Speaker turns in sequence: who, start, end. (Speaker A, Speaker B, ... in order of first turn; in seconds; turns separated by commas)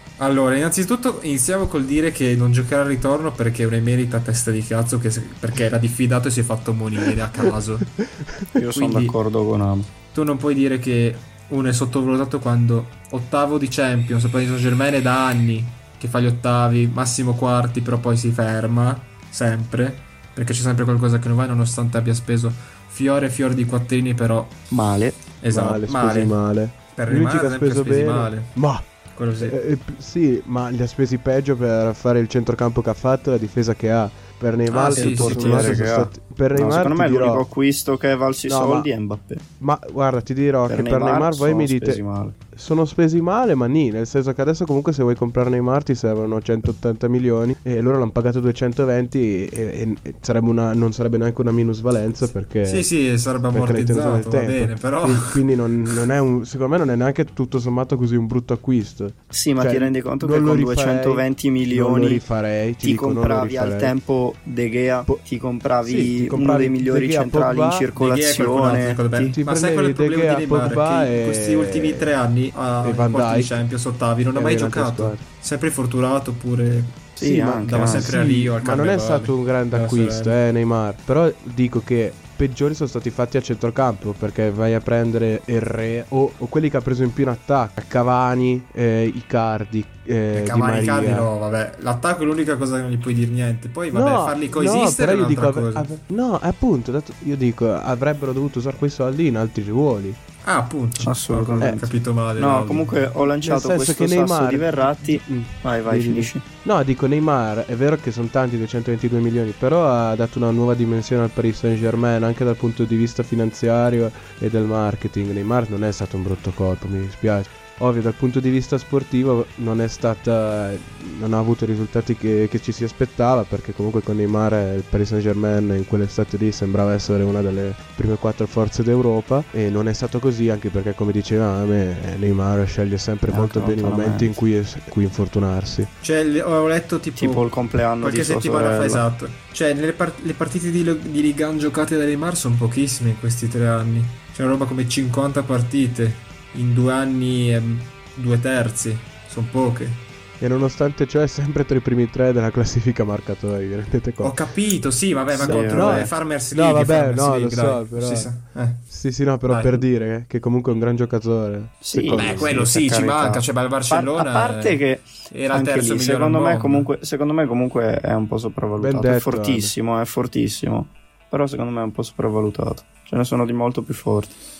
Speaker A: 0.2-7.9, Speaker B: 8.6-9.9, Speaker A: 8.7-9.2, Speaker A: 10.1-24.6, Speaker B: 24.7-25.2, Speaker A: 25.4-26.4, Speaker C: 25.5-28.9, Speaker A: 26.9-28.5, Speaker A: 29.1-29.6, Speaker C: 29.4-37.5, Speaker A: 34.7-35.9, Speaker B: 34.9-39.4, Speaker C: 38.5-38.9, Speaker C: 39.6-42.0, Speaker B: 40.7-42.4, Speaker C: 42.5-52.9, Speaker A: 52.6-56.1, Speaker C: 53.5-63.9, Speaker B: 59.3-62.2, Speaker B: 62.8-69.4, Speaker C: 65.8-67.9, Speaker A: 68.0-80.4, Speaker C: 69.3-72.1, Speaker C: 72.8-73.6, Speaker C: 74.3-75.2, Speaker B: 77.2-78.2, Speaker C: 77.2-91.3, Speaker A: 90.3-95.9, Speaker C: 93.9-100.2, Speaker A: 100.4-103.1, Speaker B: 101.0-106.5, Speaker C: 103.4-135.9, Speaker B: 133.3-134.3, Speaker A: 136.0-137.5, Speaker B: 137.2-139.0, Speaker A: 138.0-150.0, Speaker C: 150.4-154.3, Speaker A: 154.2-158.9, Speaker B: 155.4-156.1, Speaker C: 155.4-162.7, Speaker A: 159.5-159.8, Speaker B: 161.8-174.3, Speaker A: 162.1-166.9, Speaker C: 168.8-169.7